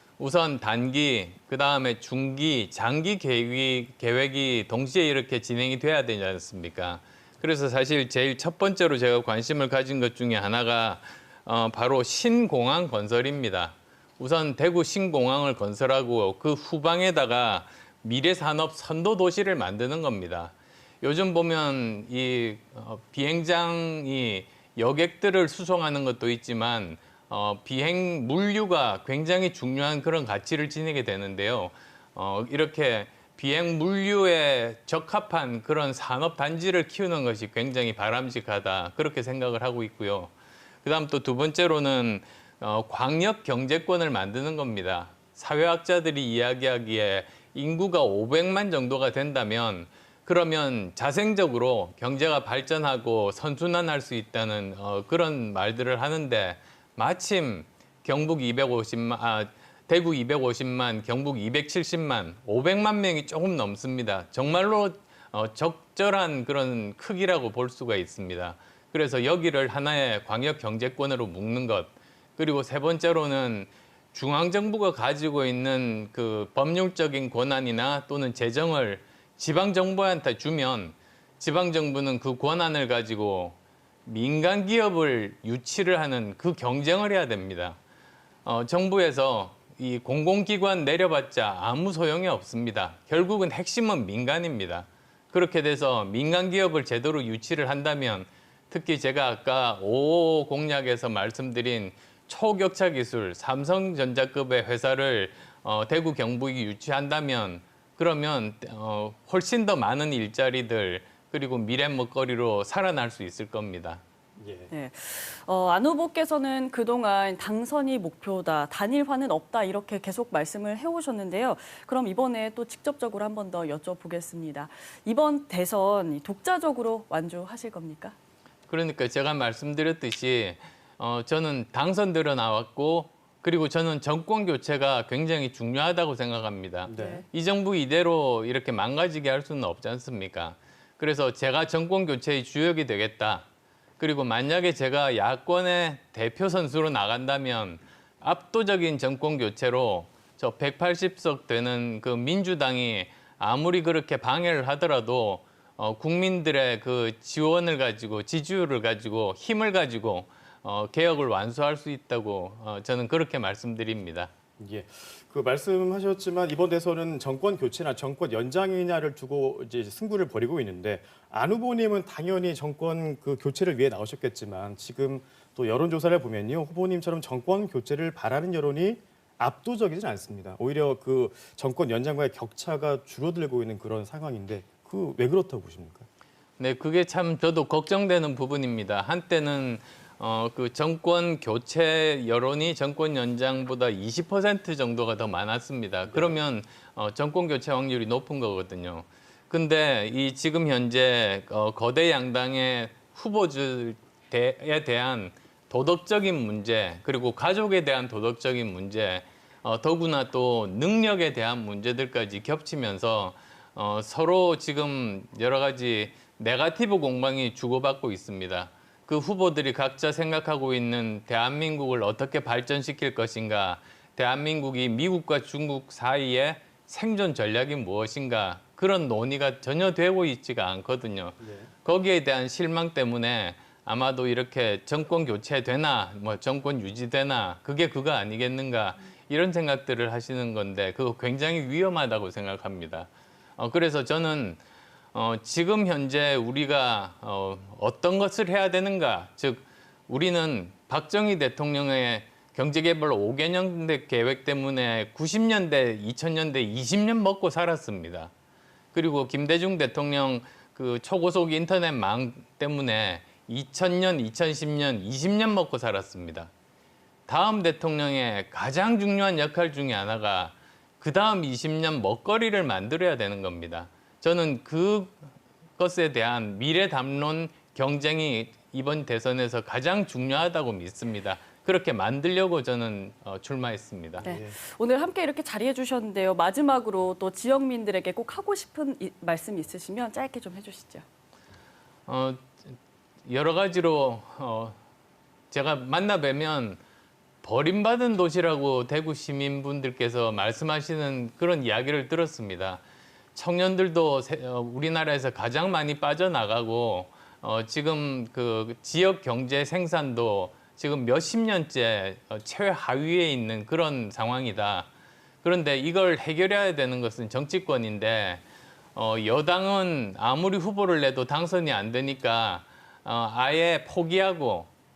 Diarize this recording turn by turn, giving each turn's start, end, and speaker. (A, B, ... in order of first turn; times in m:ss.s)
0:00.2-0:40.3 A
0:40.8-1:27.8 A
1:28.4-1:54.0 A
1:54.4-1:54.7 B
1:54.7-2:08.2 C
2:08.7-2:23.4 A
2:16.9-2:17.2 B
2:16.9-2:17.2 C
2:24.0-2:44.3 A
2:44.6-3:06.0 B
3:06.6-4:04.6 A
3:16.1-3:16.4 B
3:51.4-3:51.7 B
4:05.1-4:18.3 A
4:18.9-4:26.5 A
4:27.3-4:44.3 A
4:44.2-4:44.6 B
4:44.2-4:51.0 C
4:52.1-4:52.7 A
4:53.2-4:54.8 A
4:55.5-4:56.8 A
4:57.4-5:02.8 A
5:03.3-5:14.9 A
5:15.4-5:18.4 A
5:18.9-5:24.7 A